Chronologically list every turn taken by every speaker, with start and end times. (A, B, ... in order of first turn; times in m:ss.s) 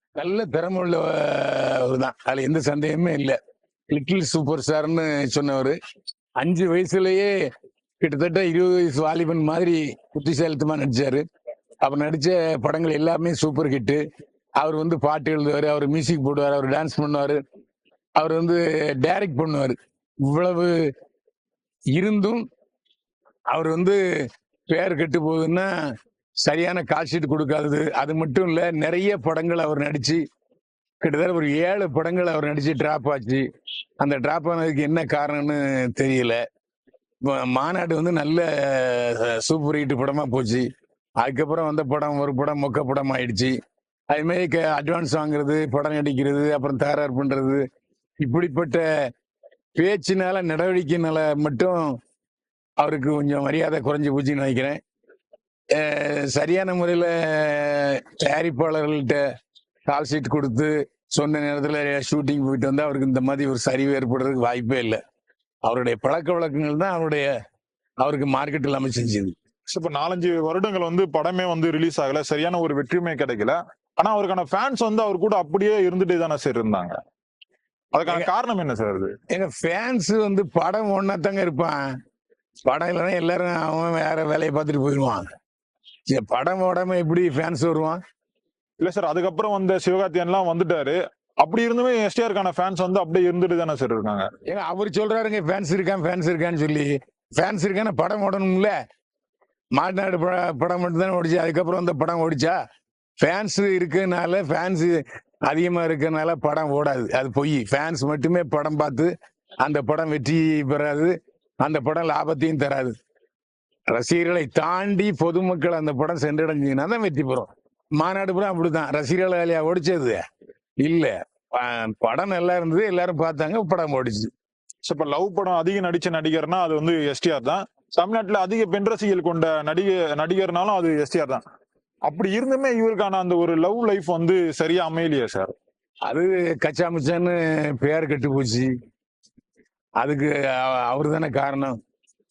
0:00.2-0:03.4 A
0:03.9-0:05.8 A
0:06.4-0:07.5 A
0:08.0-0:11.2 A
0:11.8-0:14.0 A
0:14.6-0:17.4 A
0:18.2-0:20.9 A
0:21.9-0:22.5 A
0:23.5-0:30.2 A
0:31.0-0:33.5 A
0:34.0-0:36.4 A
0:37.2-0:40.7 A
0:41.2-0:43.6 A
0:44.1-0:47.6 A
0:48.2-0:49.1 A
0:49.8-0:52.0 A
0:52.8-0:54.8 A
0:55.7-0:59.2 A
0:59.9-1:05.0 A
1:05.6-1:07.3 A
1:08.0-1:09.4 A
1:09.7-1:17.0 B
1:17.9-1:19.1 B
1:19.3-1:21.9 A
1:22.6-1:25.3 A
1:26.1-1:28.0 A
1:28.8-1:34.3 B
1:34.5-1:38.8 A
1:39.8-1:42.6 A
1:43.2-1:53.0 A
1:53.9-2:00.2 A
2:00.8-2:04.3 A
2:04.8-2:11.4 B
2:12.0-2:15.5 B
2:16.1-2:18.8 A
2:20.0-2:21.8 A